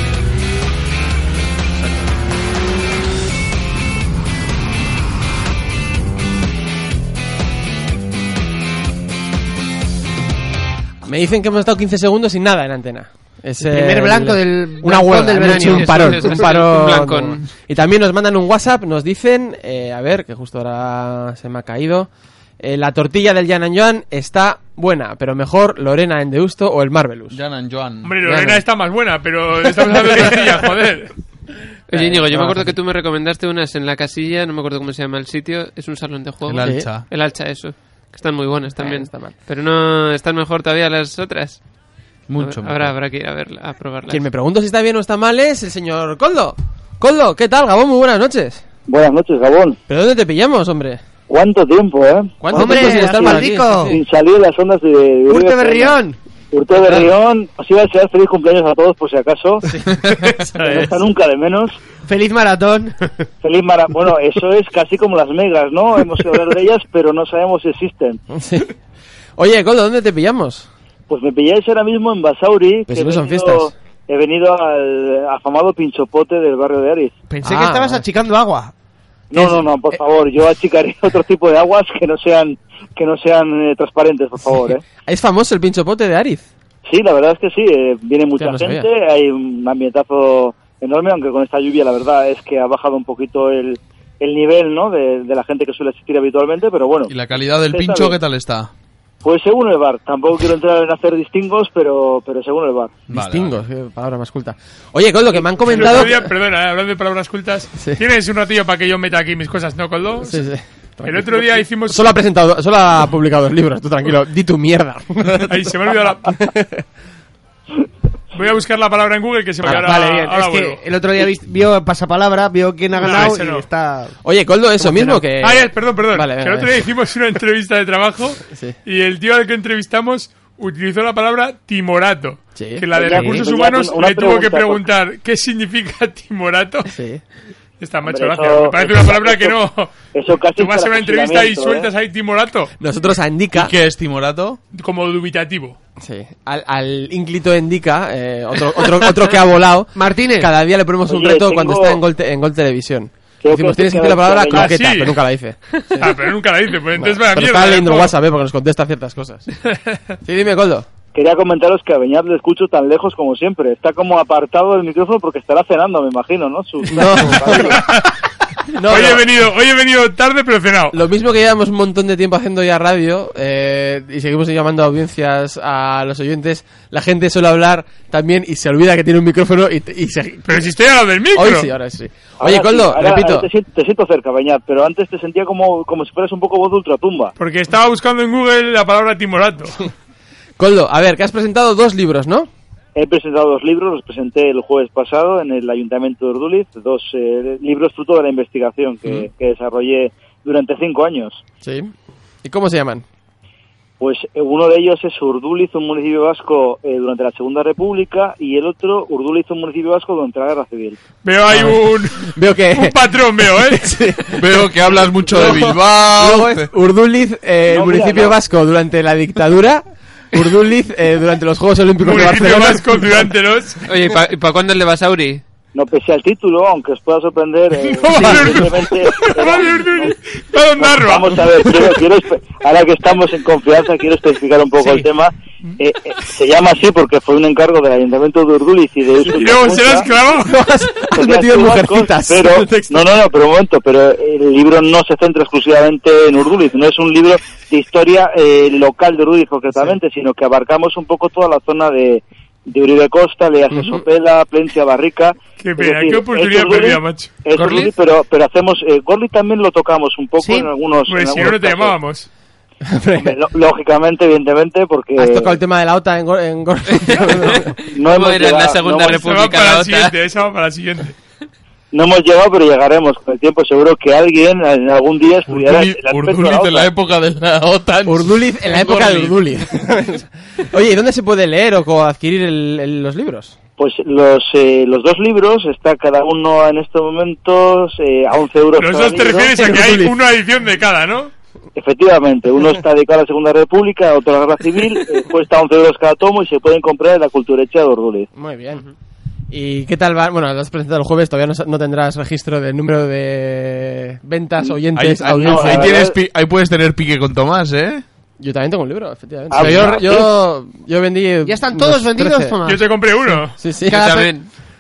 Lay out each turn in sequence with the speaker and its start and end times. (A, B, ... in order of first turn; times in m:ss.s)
0:11.0-0:22.1 A
0:13.6-0:16.4 B
0:15.5-0:17.5 C
0:22.6-0:27.4 A
0:27.3-0:28.2 D
0:28.0-0:31.1 E
0:28.2-0:28.6 A
0:29.8-0:30.5 A
0:31.9-0:41.6 C
0:31.9-0:32.8 A
0:36.4-0:37.1 D
0:36.6-0:36.9 A
0:38.8-0:39.4 A
0:42.3-0:43.0 D
0:42.4-0:44.2 C
0:44.1-0:48.6 A
0:48.9-0:49.8 F
0:49.9-0:51.0 A
0:51.3-0:56.0 F
0:52.4-0:54.0 A
0:52.5-0:54.0 B
0:55.3-0:56.2 B
0:56.5-0:59.7 F
0:59.7-1:00.8 A
1:00.7-1:01.8 F
1:02.0-1:03.1 B
1:03.4-1:08.2 F
1:08.3-1:08.7 A
1:09.4-1:10.7 A
1:11.1-1:17.2 F
1:12.9-1:13.7 A
1:17.3-1:18.7 B
1:17.4-1:18.0 A
1:19.3-1:24.8 F
1:25.1-1:26.5 A
1:26.9-1:37.1 F
1:28.4-1:28.9 A
1:37.1-1:38.7 D
1:37.7-1:38.2 F
1:39.2-1:43.0 F
1:43.1-1:43.6 D
1:43.1-1:46.3 A
1:45.6-1:50.5 E
1:50.2-1:55.7 A
1:51.0-1:52.2 E
1:55.4-1:56.3 E
1:56.2-1:56.8 A
1:58.4-2:00.8 E
1:59.6-2:04.2 B
2:03.0-2:03.6 E
2:04.2-2:06.8 A
2:04.8-2:05.2 B
2:05.4-2:16.9 E
2:08.5-2:08.8 A
2:12.6-2:12.9 A
2:12.9-2:14.8 F
2:13.1-2:13.4 B
2:16.9-2:17.2 A
2:17.8-2:20.0 E
2:18.0-2:19.6 F
2:20.1-2:21.9 F
2:20.6-2:22.7 E
2:22.8-2:23.7 A
2:23.5-2:24.6 D
2:24.7-2:25.8 E
2:26.0-2:36.2 A
2:30.0-2:30.5 B
2:31.1-2:32.0 F
2:33.4-2:34.8 F
2:34.5-2:35.2 E
2:36.0-2:38.1 E
2:37.0-2:39.5 A
2:40.2-2:40.9 A
2:41.1-2:47.9 F
2:46.9-2:47.8 A
2:47.5-2:48.1 E
2:48.7-2:49.3 A
2:48.8-2:51.0 E
2:50.9-3:00.7 A
3:00.5-3:01.7 E
3:01.3-3:03.5 A
3:02.4-3:07.3 F
3:07.4-3:09.8 E
3:10.6-3:12.5 A
3:13.0-3:21.4 F
3:21.6-3:21.9 A
3:22.4-3:23.0 A
3:24.0-3:31.0 F
3:31.2-3:34.1 E
3:31.5-3:33.0 A
3:33.5-3:34.7 A
3:34.3-3:36.7 D
3:35.2-3:43.2 A
3:37.7-3:38.4 F
3:42.0-3:43.8 E
3:43.9-3:45.4 C
3:45.7-3:50.2 F
3:47.9-3:51.7 E
3:50.8-4:00.1 F
3:59.3-4:00.5 E
4:00.3-4:03.1 A
4:01.1-4:22.0 F
4:13.7-4:14.0 A
4:15.6-4:17.5 E
4:17.6-4:17.9 C
4:20.4-4:20.7 B
4:21.1-4:22.3 E
4:22.8-4:23.4 A
4:23.2-4:25.6 F
4:25.2-4:27.8 A
4:27.6-4:30.1 C
4:27.9-4:29.2 F
4:29.0-4:31.2 E
4:31.9-4:36.9 F
4:35.5-4:39.3 D
4:38.0-4:43.6 A
4:43.8-4:49.6 F
4:48.8-4:51.3 E
4:49.6-4:50.1 A
4:51.8-4:58.3 F
4:58.3-4:58.9 A
4:59.5-5:06.1 A
5:04.9-5:08.0 D
5:05.3-5:06.2 F
5:08.4-5:12.6 A
5:09.5-5:10.3 F
5:09.6-5:10.0 D
5:11.4-5:12.8 B
5:12.7-5:13.6 E
5:13.6-5:14.4 A
5:13.8-5:14.5 C